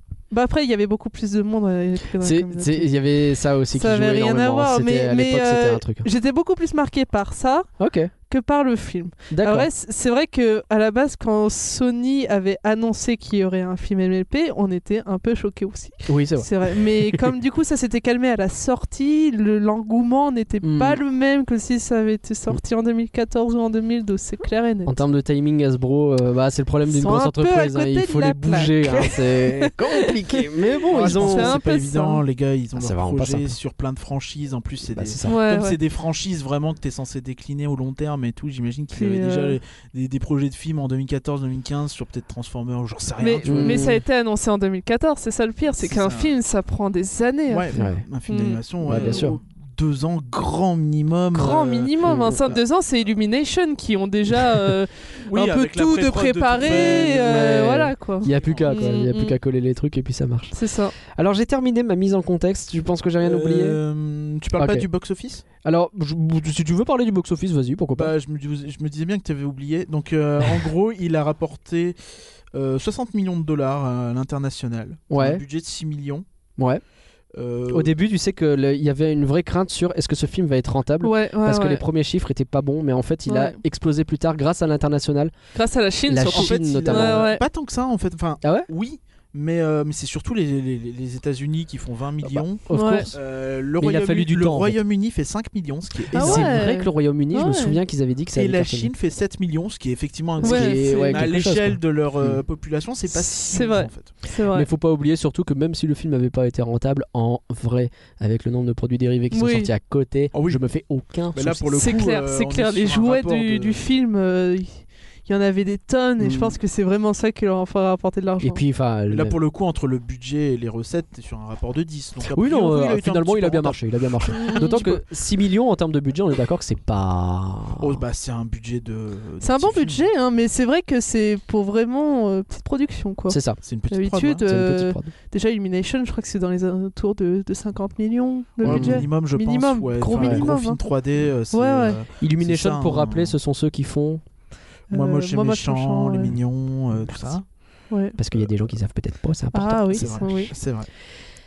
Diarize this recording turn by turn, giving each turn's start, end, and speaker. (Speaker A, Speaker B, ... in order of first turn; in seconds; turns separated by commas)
Speaker A: 0.3-2.9, Speaker B: 2.2-6.1, Speaker A: 3.7-7.7, Speaker B: 7.8-8.1, Speaker A: 8.3-25.0, Speaker B: 9.3-9.7, Speaker B: 16.1-17.3, Speaker B: 20.6-21.0, Speaker B: 24.9-31.6, Speaker A: 26.9-30.4, Speaker C: 30.9-43.9, Speaker A: 31.0-32.2, Speaker B: 32.7-33.5, Speaker B: 34.9-35.4, Speaker A: 35.3-35.8, Speaker A: 38.9-39.6, Speaker A: 43.2-49.3, Speaker B: 43.4-44.0, Speaker C: 45.8-46.3, Speaker C: 47.5-52.6, Speaker B: 47.7-48.0, Speaker B: 48.8-49.4, Speaker A: 51.3-59.4, Speaker B: 52.0-52.4, Speaker C: 55.3-57.5, Speaker B: 56.7-63.8, Speaker C: 58.3-58.8, Speaker A: 60.5-60.9, Speaker C: 63.2-65.5, Speaker B: 64.5-64.9, Speaker B: 65.6-68.1, Speaker C: 68.0-72.0, Speaker C: 72.5-76.2, Speaker B: 75.1-75.4, Speaker B: 76.6-76.8, Speaker C: 77.3-77.9, Speaker B: 77.7-85.3, Speaker A: 81.0-81.8, Speaker A: 83.3-83.6, Speaker A: 85.5-87.4, Speaker B: 86.1-87.3, Speaker C: 86.3-96.5, Speaker B: 88.4-88.7, Speaker B: 92.2-93.2, Speaker A: 92.7-93.1, Speaker B: 93.8-94.8, Speaker A: 96.1-97.8, Speaker B: 96.1-98.9, Speaker C: 98.3-104.1, Speaker B: 100.4-102.4, Speaker A: 100.4-101.3, Speaker A: 103.2-104.7, Speaker B: 104.5-111.8, Speaker A: 109.3-109.7, Speaker C: 110.3-110.6, Speaker C: 111.3-113.8, Speaker A: 111.7-118.6, Speaker B: 116.2-116.5, Speaker B: 118.4-119.4, Speaker C: 119.1-125.0, Speaker B: 122.3-128.0, Speaker A: 124.3-124.9, Speaker C: 127.8-130.1, Speaker A: 129.4-133.4, Speaker B: 133.3-133.6, Speaker C: 133.6-134.4, Speaker A: 133.9-140.8, Speaker B: 134.4-135.1, Speaker C: 138.6-143.3, Speaker B: 138.6-139.1, Speaker B: 140.1-140.4, Speaker A: 141.5-142.0, Speaker B: 142.2-144.2, Speaker A: 144.9-146.3, Speaker C: 144.9-147.5, Speaker A: 147.9-148.2, Speaker B: 148.2-150.3, Speaker A: 149.5-150.5, Speaker C: 149.9-150.9